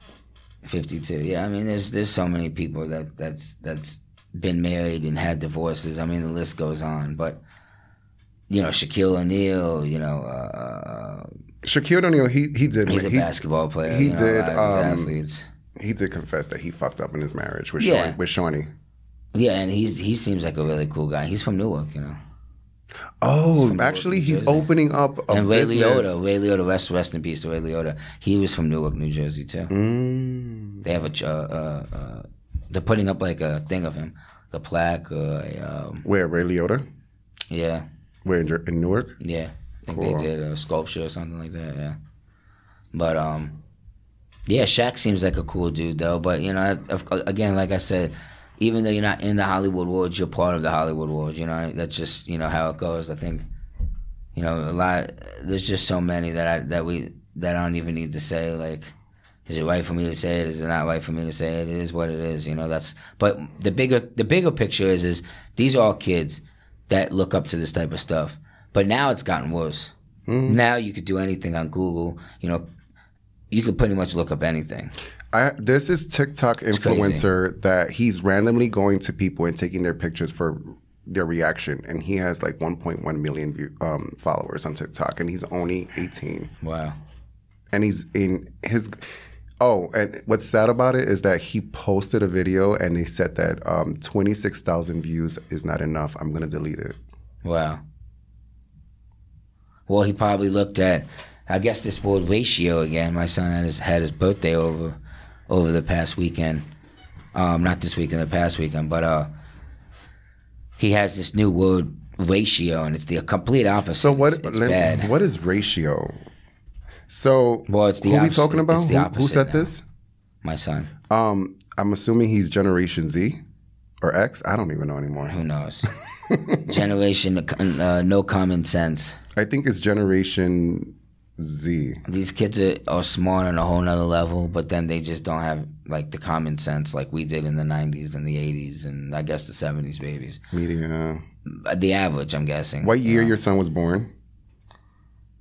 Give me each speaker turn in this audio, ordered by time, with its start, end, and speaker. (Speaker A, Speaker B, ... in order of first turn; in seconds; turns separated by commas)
Speaker A: 0.6-7.4, Speaker A: 8.5-11.3, Speaker B: 11.6-13.3, Speaker A: 12.9-15.4, Speaker B: 13.8-15.1, Speaker B: 15.8-18.7, Speaker A: 17.8-18.1, Speaker A: 19.3-22.2, Speaker B: 23.2-26.2, Speaker A: 23.6-24.7, Speaker A: 25.3-29.7, Speaker B: 29.7-30.8, Speaker A: 30.8-36.0, Speaker B: 36.0-36.8, Speaker A: 37.5-37.8, Speaker B: 38.2-39.1, Speaker A: 39.2-42.0, Speaker B: 39.9-40.3, Speaker A: 42.9-43.5, Speaker A: 44.5-53.5, Speaker A: 54.3-58.9, Speaker A: 59.5-69.9, Speaker B: 70.3-70.6, Speaker A: 70.5-72.6, Speaker A: 73.5-74.9, Speaker B: 75.3-86.5, Speaker A: 76.7-77.2, Speaker A: 86.6-87.0, Speaker B: 87.7-89.0, Speaker B: 89.6-97.0, Speaker A: 97.4-97.8, Speaker A: 99.9-105.0, Speaker A: 105.5-106.6, Speaker A: 107.3-109.3, Speaker A: 110.8-115.1, Speaker B: 114.0-116.1, Speaker B: 117.1-119.8, Speaker A: 117.7-119.7, Speaker A: 120.4-120.9, Speaker B: 121.1-123.4, Speaker B: 124.0-125.4, Speaker A: 125.2-125.9, Speaker B: 126.0-126.7, Speaker A: 126.7-129.2, Speaker B: 129.3-132.0, Speaker A: 132.1-140.4, Speaker B: 140.5-141.2, Speaker A: 141.4-143.3, Speaker B: 142.8-144.1